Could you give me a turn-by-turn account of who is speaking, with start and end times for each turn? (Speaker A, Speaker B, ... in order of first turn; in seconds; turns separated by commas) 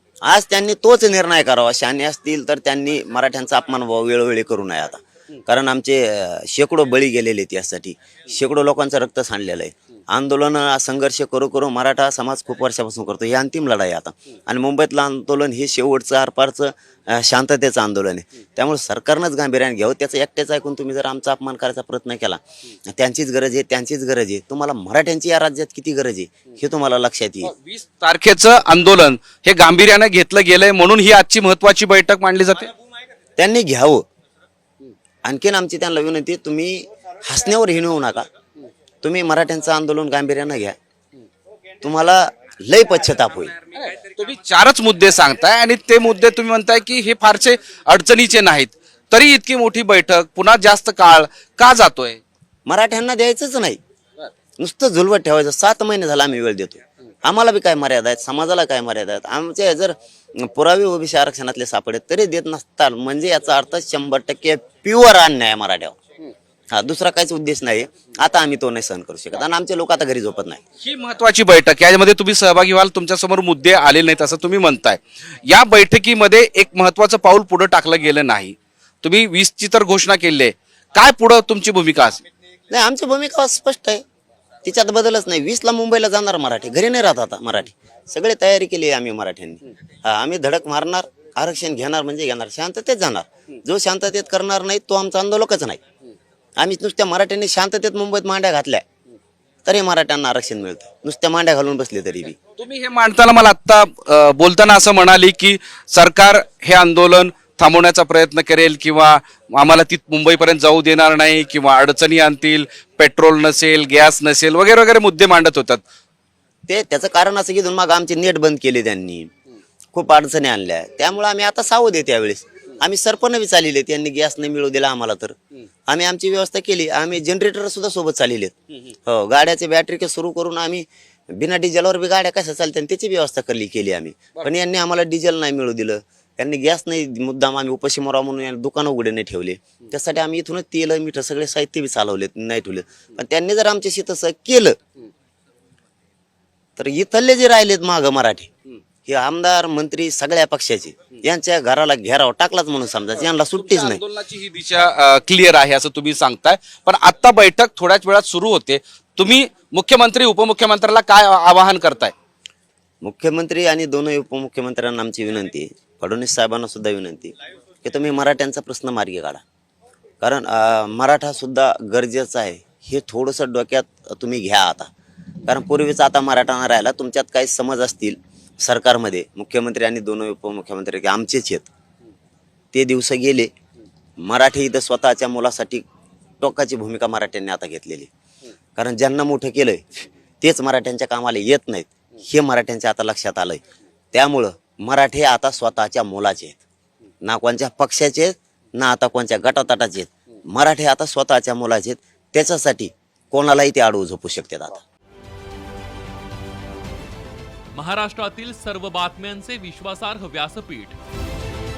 Speaker A: 0.2-27.5, Speaker B: 27.5-32.7, Speaker A: 33.4-34.0, Speaker A: 35.2-38.3, Speaker A: 39.0-40.8, Speaker A: 41.8-43.5, Speaker B: 43.7-52.2, Speaker A: 52.7-53.8, Speaker A: 54.6-66.0, Speaker A: 66.7-70.6, Speaker B: 70.8-82.2, Speaker A: 82.7-84.0, Speaker A: 84.6-95.8, Speaker A: 96.6-98.8, Speaker A: 99.6-102.4, Speaker B: 102.6-115.8, Speaker A: 116.7-119.3, Speaker A: 119.9-125.4, Speaker A: 125.9-144.8, Speaker A: 146.8-148.5, Speaker A: 149.0-154.0, Speaker B: 153.3-162.1, Speaker A: 163.0-169.4, Speaker A: 170.2-174.9, Speaker A: 175.5-181.7, Speaker A: 182.7-183.5, Speaker A: 184.2-185.8, Speaker A: 186.4-188.1, Speaker A: 188.8-193.6, Speaker A: 194.1-196.6, Speaker A: 197.2-204.8, Speaker C: 207.7-211.0